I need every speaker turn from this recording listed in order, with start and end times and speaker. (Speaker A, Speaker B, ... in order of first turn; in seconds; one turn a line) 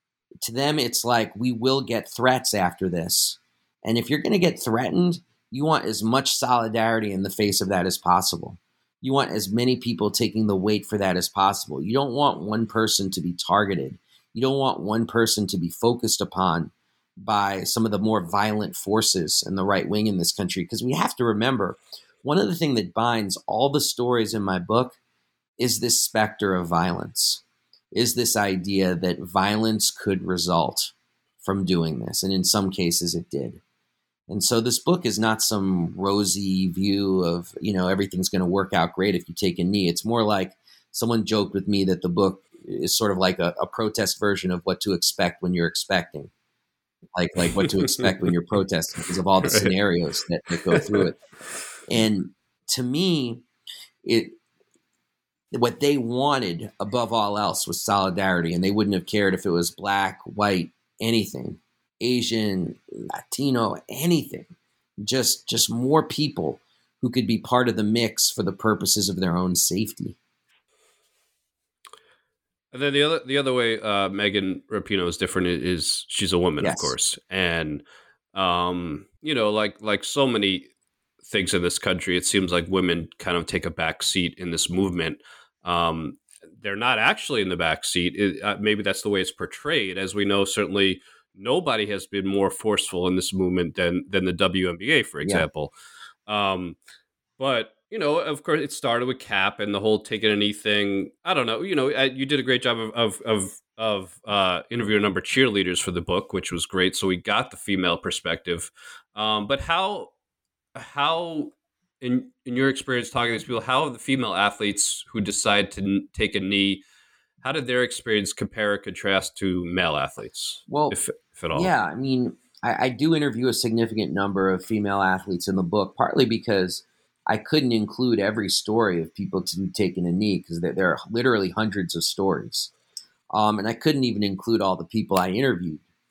Speaker A: 0.4-24.9
Speaker A: 25.6-27.4
Speaker A: 27.9-33.6
Speaker A: 34.3-46.3
Speaker A: 47.1-51.2
Speaker B: 47.4-48.0
Speaker B: 49.4-49.7
Speaker B: 50.7-51.0
Speaker A: 51.9-53.4
Speaker A: 54.0-54.4
Speaker A: 55.5-64.5
Speaker A: 65.0-70.2
Speaker B: 72.7-80.7
Speaker A: 76.6-76.9
Speaker B: 81.2-95.7
Speaker A: 95.2-95.5
Speaker B: 96.3-96.8
Speaker B: 97.4-110.1
Speaker B: 110.7-116.8
Speaker B: 117.4-121.7
Speaker A: 120.7-121.0
Speaker A: 121.5-132.7
Speaker A: 133.3-135.8